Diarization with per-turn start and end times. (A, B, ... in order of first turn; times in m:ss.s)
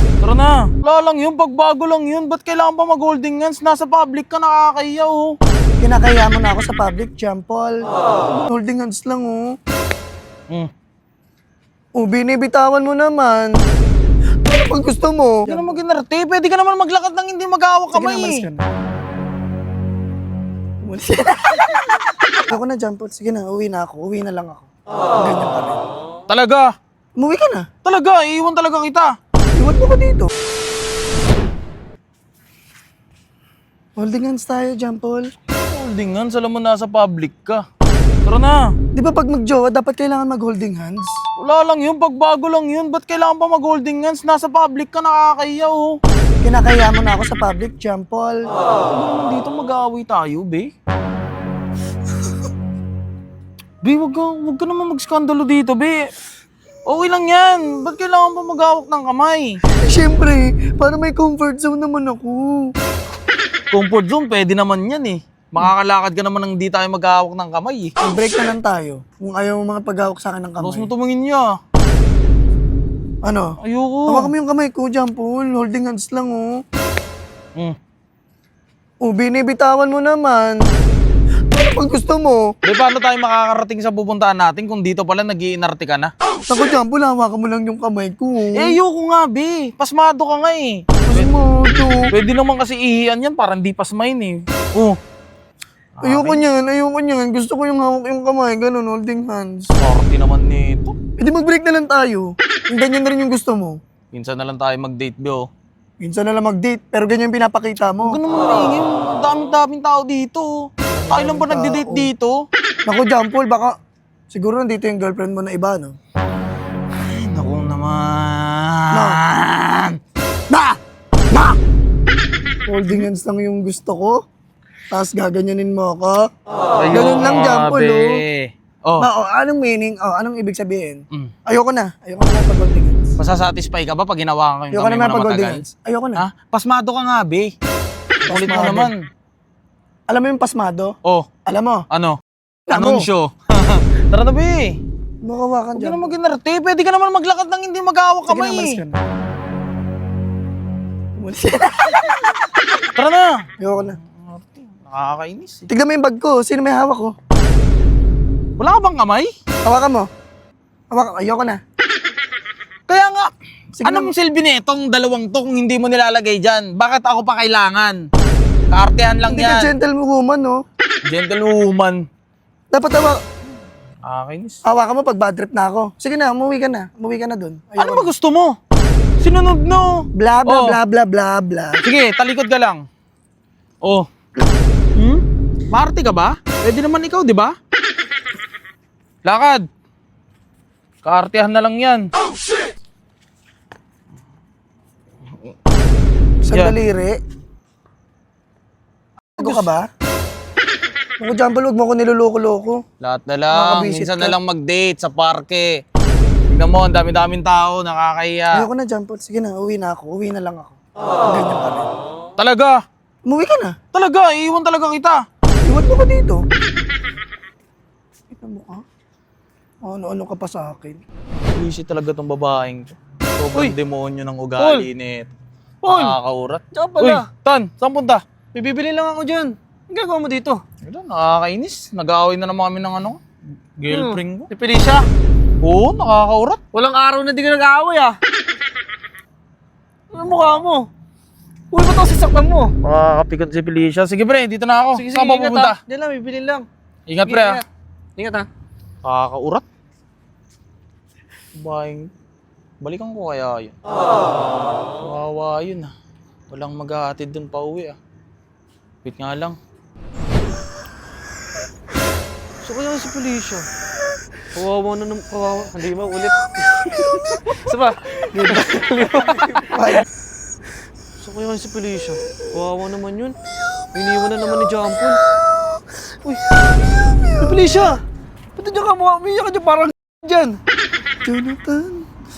0:00.2-0:05.3 A
0:05.8-0:09.5 B
0:12.0-0:13.6 B
0:14.5-0:15.8 B
0:15.5-0:18.4 A
0:17.9-0:18.6 B
0:20.8-0:21.8 B
0:22.5-0:25.8 B
0:26.3-0:26.7 A
0:27.2-0:27.7 B
0:27.8-0:29.1 A
0:29.6-0:30.3 B
0:34.0-0:35.3 B
0:35.7-0:37.6 A
0:38.3-0:38.6 A
0:38.9-0:41.1 B
0:41.4-0:46.0 A
0:46.4-0:48.5 B
0:48.7-0:50.7 A
0:53.8-0:56.0 A
0:56.9-0:59.6 A
0:59.8-1:02.7 B
1:03.7-1:07.9 A
1:08.0-1:10.9 B
1:10.6-1:11.5 A
1:13.2-1:13.5 B
1:13.6-1:14.3 A
1:14.1-1:16.5 B
1:19.0-1:20.6 B
1:21.5-1:22.5 B
1:22.6-1:26.1 A
1:26.5-1:28.8 B
1:28.6-1:31.3 A
1:31.1-1:32.1 B
1:32.1-1:35.0 A
1:36.0-1:36.4 A
1:36.0-1:39.7 B
1:39.8-1:41.0 A
1:41.2-1:43.8 B
1:44.1-1:45.5 A
1:46.0-1:48.2 B
1:48.0-1:50.5 A
1:50.9-1:52.1 B
1:51.1-1:52.4 A
1:52.8-1:53.7 B
1:54.3-1:56.0 B
1:56.9-2:00.0 A
1:58.9-1:59.2 B
2:00.5-2:00.8 B
2:01.3-2:01.6 B
2:02.7-2:04.2 B
2:04.9-2:06.2 B
2:06.8-2:09.1 A
2:06.9-2:08.2 B
2:09.0-2:13.0 B
2:13.2-2:15.6 A
2:14.7-2:16.2 B
2:16.2-2:17.5 A
2:18.2-2:18.9 B
2:18.3-2:19.0 A
2:20.1-2:20.9 B
2:21.5-2:21.8 B
2:21.9-2:22.2 A
2:22.7-2:23.1 B
2:22.7-2:24.8 A
2:25.2-2:26.1 B
2:25.8-2:28.8 A
2:28.3-2:29.0 B
2:31.2-2:32.8 B
2:33.0-2:33.4 A
2:33.6-2:34.0 B
2:33.9-2:35.7 A
2:35.7-2:37.2 B
2:38.6-2:39.3 A
2:39.6-2:40.1 B
2:40.9-2:41.6 B
2:42.9-2:43.3 A
2:43.8-2:44.1 B
2:43.8-2:48.0 A
2:48.7-2:49.7 A
2:49.3-2:50.6 B
2:51.1-2:52.0 A
2:52.7-2:53.2 B
2:54.1-2:54.6 A
2:54.6-2:58.1 B
2:57.8-2:58.5 A
2:59.2-3:00.8 A
3:00.2-3:01.8 B
3:01.8-3:02.8 A
3:05.0-3:07.5 A
3:09.2-3:09.7 A
3:11.0-3:12.1 A
3:16.4-3:17.2 B
3:19.4-3:19.7 A
3:19.4-3:19.8 B
3:21.2-3:22.8 B
3:23.0-3:25.7 A
3:23.5-3:24.4 B
3:26.5-3:28.7 A
3:28.5-3:31.9 B
3:32.4-3:32.8 A
3:33.3-3:33.8 B
3:33.9-3:35.2 A
3:35.6-3:36.4 B
3:38.3-3:38.8 B
3:39.8-3:41.0 B
3:41.5-3:45.3 A
3:44.6-3:44.9 C
3:45.8-3:48.2 A
3:45.9-3:46.2 C
3:46.7-3:47.3 C
3:48.5-3:50.6 C
3:50.8-3:53.2 A
3:53.8-3:54.5 A
3:53.9-3:55.1 C
3:55.6-3:56.6 A
3:56.7-3:58.2 C
4:00.1-4:00.9 C
4:00.2-4:00.6 A
4:01.7-4:02.7 C
4:02.8-4:05.8 A
4:05.0-4:06.7 C
4:07.1-4:07.6 A
4:07.2-4:07.6 C
4:08.2-4:08.5 C
4:09.0-4:09.6 A
4:11.6-4:12.1 A
4:12.8-4:13.8 A
4:14.9-4:15.9 A
4:16.5-4:18.0 A
4:19.0-4:19.6 A
4:22.6-4:23.7 C
4:24.5-4:30.0 C
4:28.3-4:30.1 B
4:31.2-4:33.4 C
4:33.5-4:37.7 B
4:33.9-4:35.2 C
4:37.4-4:38.0 C
4:38.6-4:40.6 C
4:41.2-4:42.1 B